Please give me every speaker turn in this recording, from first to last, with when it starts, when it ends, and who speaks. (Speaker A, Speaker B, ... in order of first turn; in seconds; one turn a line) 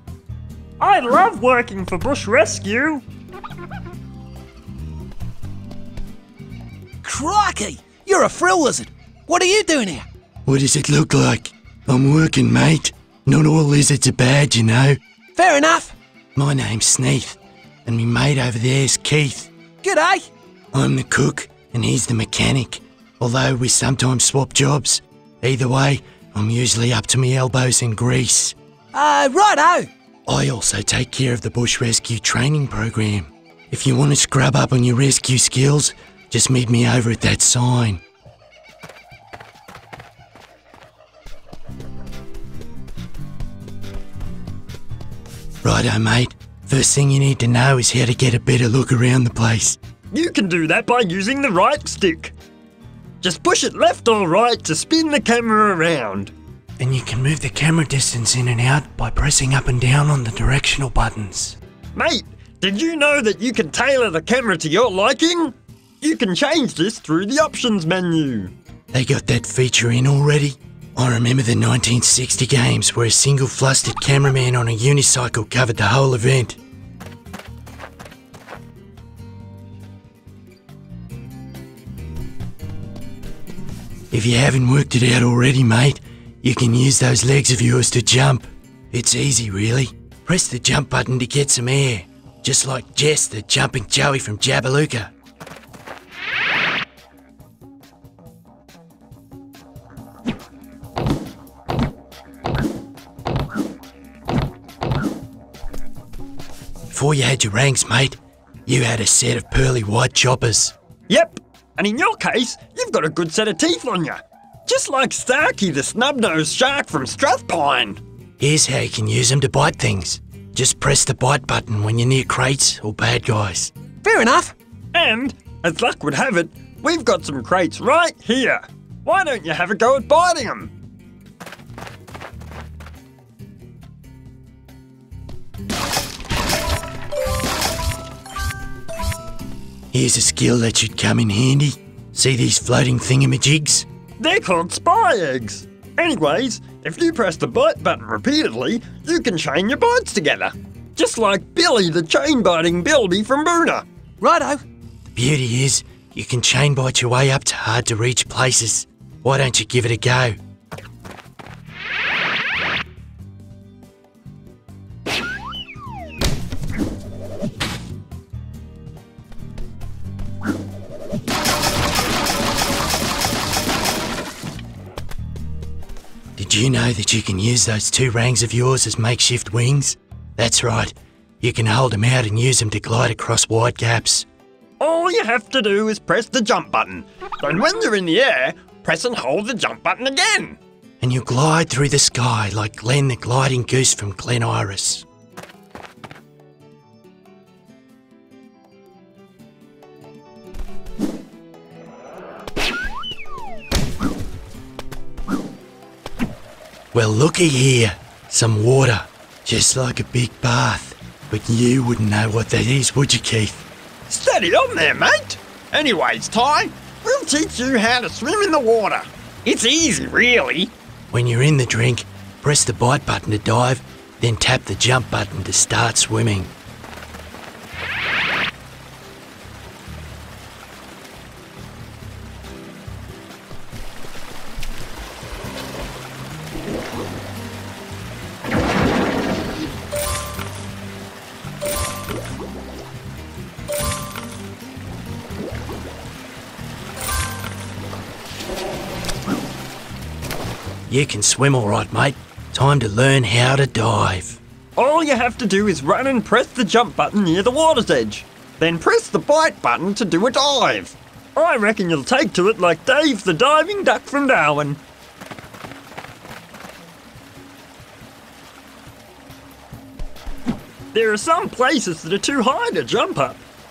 Speaker A: 0.8-3.0
Speaker B: 7.0-10.1
Speaker C: 10.4-15.0
Speaker B: 15.4-15.9
Speaker C: 16.4-19.5
Speaker B: 19.8-20.2
Speaker C: 20.7-28.6
Speaker B: 28.9-29.9
Speaker C: 30.2-38.0
Speaker C: 45.6-49.8
Speaker A: 50.1-52.3
Speaker A: 53.2-56.3
Speaker C: 56.8-61.6
Speaker A: 61.9-68.5
Speaker C: 68.9-76.6
Speaker C: 84.1-95.1
Speaker C: 106.9-110.7
Speaker A: 111.1-118.0
Speaker C: 118.4-123.7
Speaker B: 124.0-124.5
Speaker A: 124.9-130.7
Speaker C: 139.9-143.8
Speaker A: 144.2-153.8
Speaker B: 154.2-154.6
Speaker C: 155.2-160.3
Speaker C: 176.4-184.2
Speaker A: 184.8-190.6
Speaker C: 191.0-195.1
Speaker C: 206.9-213.7
Speaker A: 214.1-220.7
Speaker C: 221.1-226.5
Speaker C: 250.9-254.4
Speaker A: 254.8-264.8
Speaker A: 270.9-273.4